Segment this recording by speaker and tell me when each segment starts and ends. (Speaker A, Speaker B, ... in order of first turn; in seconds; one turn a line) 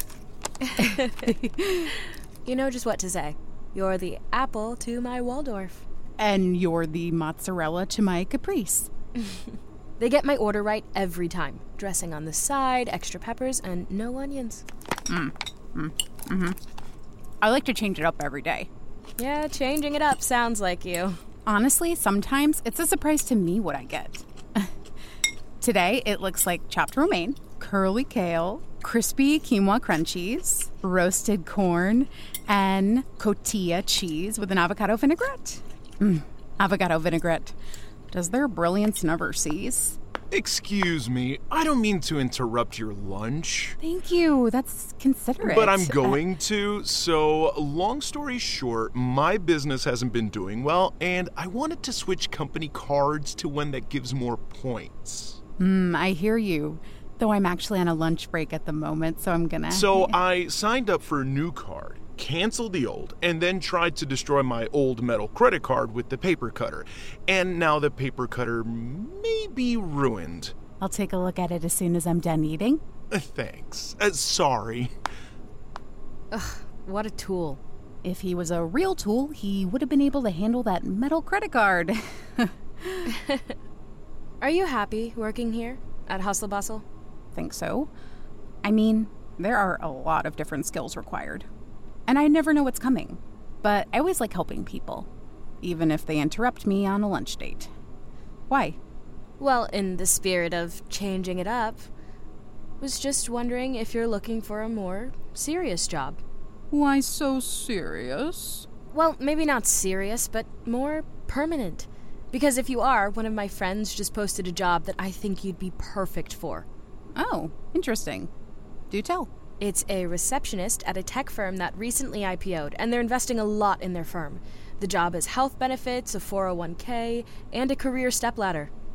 Speaker A: 0.6-1.3
Speaker B: 1.2-1.9
Speaker A: 2.4-5.8
Speaker B: 6.2-8.9
Speaker A: 10.0-14.6
Speaker B: 15.1-16.6
Speaker B: 17.4-18.7
Speaker A: 19.2-21.2
Speaker B: 21.4-24.7
Speaker B: 25.6-37.5
Speaker B: 38.1-40.0
Speaker C: 40.3-43.8
Speaker B: 43.8-46.2
Speaker C: 45.4-55.4
Speaker B: 55.6-60.1
Speaker C: 59.7-70.5
Speaker B: 70.8-72.8
Speaker C: 73.1-74.9
Speaker A: 76.3-77.6
Speaker B: 78.0-83.1
Speaker A: 83.1-83.4
Speaker A: 84.4-86.8
Speaker B: 87.3-87.9
Speaker B: 88.6-91.5
Speaker B: 92.1-95.1
Speaker B: 95.6-97.7
Speaker B: 98.5-98.8
Speaker A: 99.4-101.9
Speaker A: 102.8-106.2
Speaker B: 106.7-108.7
Speaker A: 108.9-116.7
Speaker B: 117.2-118.3
Speaker B: 118.9-119.3
Speaker A: 119.6-128.7